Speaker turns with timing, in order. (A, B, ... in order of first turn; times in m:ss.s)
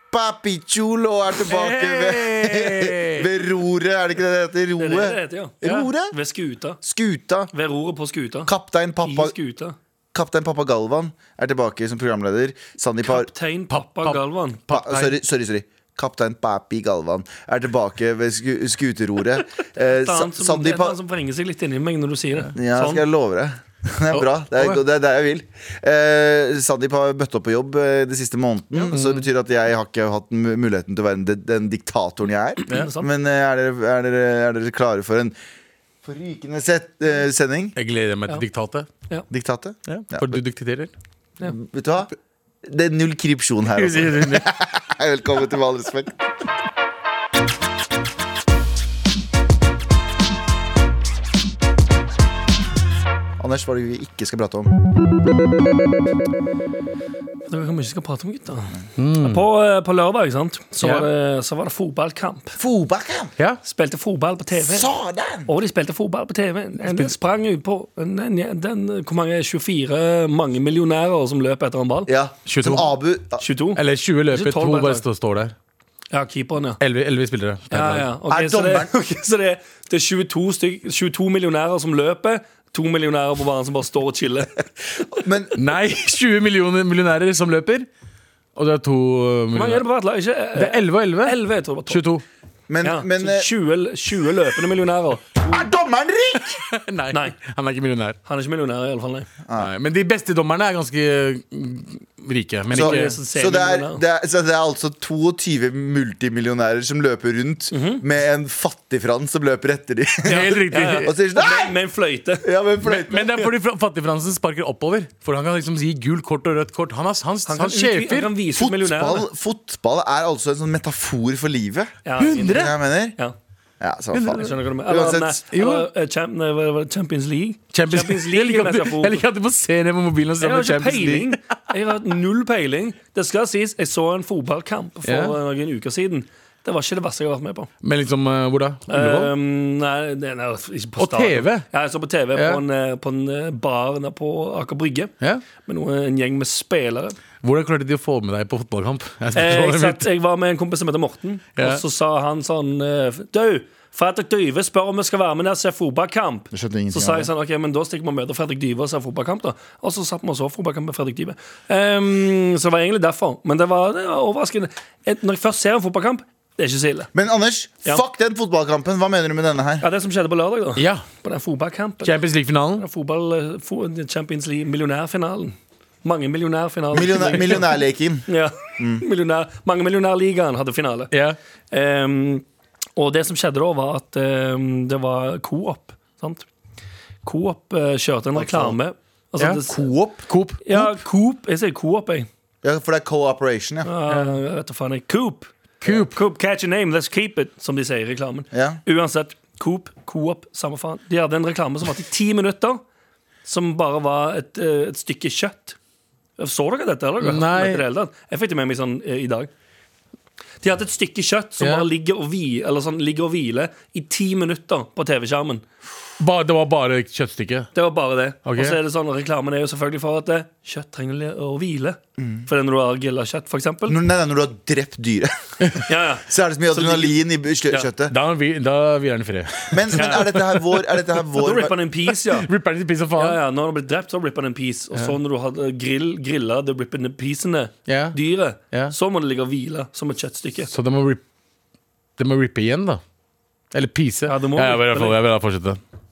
0:00.1-0:06.2 A
0:01.4-0:03.3 B
0:04.8-0:05.6 C
0:05.6-0:05.9 B
0:06.1-0:06.8 C
0:06.8-0:07.5 A
0:07.5-0:08.5 C
0:08.5-0:09.4 A
0:09.0-0:09.8 C
0:10.1-0:13.3 A
0:13.0-0:14.6 C
0:13.7-0:15.2 B
0:14.7-0:21.0 A
0:19.9-0:23.0 C
0:22.6-0:35.4 A
0:24.1-0:24.8 B
0:28.8-0:29.3 B
0:32.7-0:33.1 C
0:36.0-0:37.8 A
0:37.8-0:38.9 B
0:39.3-0:40.4 A
0:39.9-0:40.9 B
0:41.4-0:46.2 A
0:43.7-0:44.5 B
0:53.4-0:54.7 A
0:57.5-1:02.6 C
0:59.0-0:59.4 B
1:00.8-1:01.1 B
1:02.6-1:03.3 A
1:03.6-1:04.9 C
1:04.6-1:05.5 A
1:05.5-1:12.1 C
1:06.8-1:07.1 B
1:12.1-1:13.4 A
1:12.5-1:12.9 B
1:13.4-1:13.8 C
1:13.8-1:15.5 B
1:14.3-1:15.0 C
1:16.1-1:16.8 C
1:16.8-1:18.1 B
1:17.7-1:25.2 C
1:18.3-1:19.1 A
1:25.2-1:25.5 A
1:25.6-1:27.9 B
1:28.6-1:29.8 B
1:29.5-1:32.0 C
1:30.6-1:31.4 B
1:31.9-1:32.2 B
1:32.7-1:33.5 A
1:32.8-1:35.6 C
1:35.4-1:36.6 A
1:36.7-1:38.2 B
1:38.3-1:39.3 C
1:39.5-1:39.7 A
1:39.6-1:43.2 B
1:42.7-1:51.7 A
1:42.7-1:44.0 C
1:47.7-1:48.0 C
1:50.2-1:51.1 B
1:50.7-1:52.5 C
1:52.4-1:53.5 A
1:52.8-1:58.3 B
1:57.4-1:59.3 C
1:58.6-2:03.2 A
2:02.0-2:03.3 C
2:02.2-2:02.8 B
2:03.8-2:05.4 A
2:04.1-2:04.5 B
2:04.4-2:09.2 C
2:05.5-2:05.9 B
2:07.7-2:11.6 B
2:10.4-2:17.7 C
2:15.0-2:15.4 B
2:17.8-2:19.3 B
2:18.9-2:25.1 C
2:21.0-2:21.7 B
2:22.4-2:22.6 B
2:25.6-2:27.2 C
2:27.4-2:30.1 B
2:29.4-2:47.1 C
2:31.6-2:31.8 B
2:36.5-2:37.3 A
2:47.1-2:49.8 A
2:49.8-2:52.1 C
2:50.8-2:51.1 B
2:52.0-2:52.9 B
2:52.8-2:57.7 C
2:56.9-2:59.0 A
2:58.3-3:01.1 C
3:01.1-3:01.4 B
3:01.7-3:02.4 C
3:03.0-3:06.5 C
3:07.2-3:09.9 C
3:08.4-3:08.8 A
3:09.4-3:11.0 B
3:10.6-3:12.3 C
3:12.6-3:13.9 A
3:13.8-3:22.8 C
3:15.8-3:16.2 B
3:18.5-3:18.8 A
3:23.5-3:25.8 C
3:26.4-3:29.5 C
3:27.2-3:27.8 B
3:30.6-3:35.6 C
3:31.6-3:31.9 B
3:36.2-3:37.7 B
3:37.7-3:44.0 C
3:38.5-3:38.8 B
3:42.2-3:42.5 A
3:43.9-3:48.2 A
3:45.9-3:47.9 C
3:48.1-3:50.6 B
3:49.7-3:51.8 A
3:50.0-3:50.2 C
3:51.3-3:52.5 C
3:52.3-3:53.4 B
3:53.2-4:00.7 C
3:57.9-3:58.2 B
4:00.7-4:01.2 B
4:02.2-4:03.0 B
4:03.7-4:05.8 B
4:04.3-4:05.2 C